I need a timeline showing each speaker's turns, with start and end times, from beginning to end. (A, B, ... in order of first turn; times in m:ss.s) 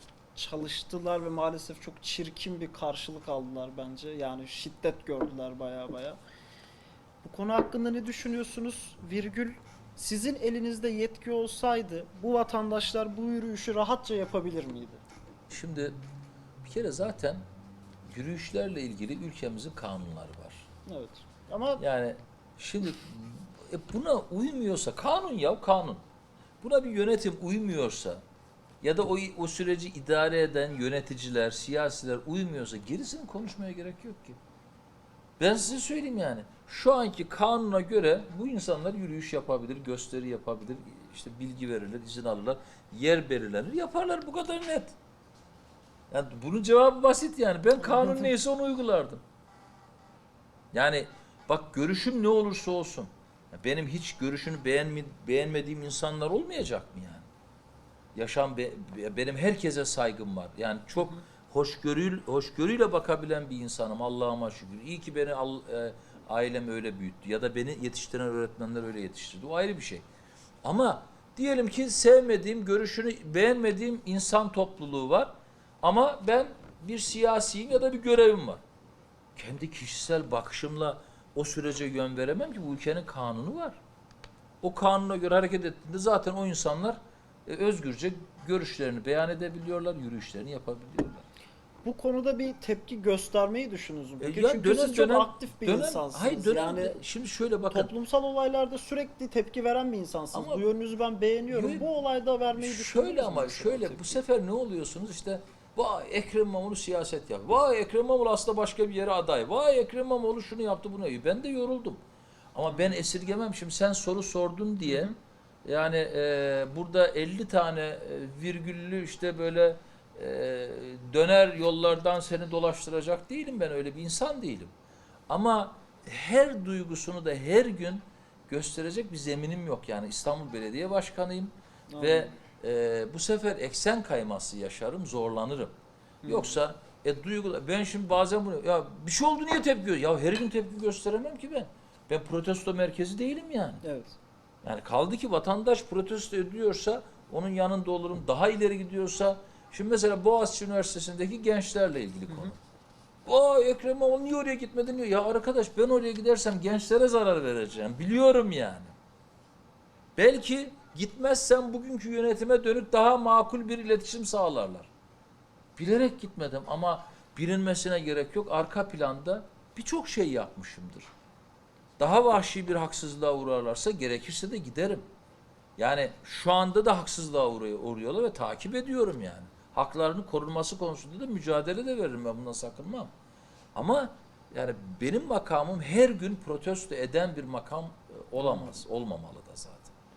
0:00.3-0:06.2 A
0:07.2-0:15.0 A
0:15.5-0:16.0 B
0:16.6-0:17.4 B
0:18.1-0:20.7 B
0:20.8-0:21.8 A
0:21.8-0:26.0 B
0:26.6-0:28.2 B
0:28.8-0:34.4 B
0:35.4-0:45.0 B
0:46.1-0:49.2 B
0:47.8-0:48.3 A
0:50.7-0:57.3 B
0:58.1-1:10.0 B
1:10.6-1:15.3 B
1:15.8-1:18.6 B
1:19.4-1:23.8 B
1:24.6-1:31.2 B
1:31.8-1:37.0 A
1:34.2-1:37.9 B
1:37.7-1:44.2 A
1:40.3-1:40.6 B
1:41.5-1:41.9 B
1:42.6-1:52.0 B
1:52.5-1:55.1 B
1:52.7-1:53.0 A
1:54.8-1:55.1 A
1:55.6-2:04.7 B
2:05.3-2:15.7 B
2:11.9-2:12.3 A
2:16.2-2:16.6 A
2:16.2-2:23.8 B
2:23.8-2:24.2 A
2:24.6-2:32.6 B
2:32.3-2:32.5 A
2:33.2-2:38.9 B
2:40.2-2:44.9 B
2:45.8-2:51.1 B
2:52.0-2:55.0 B
2:55.8-3:03.1 B
3:03.7-3:09.9 B
3:08.4-3:08.8 A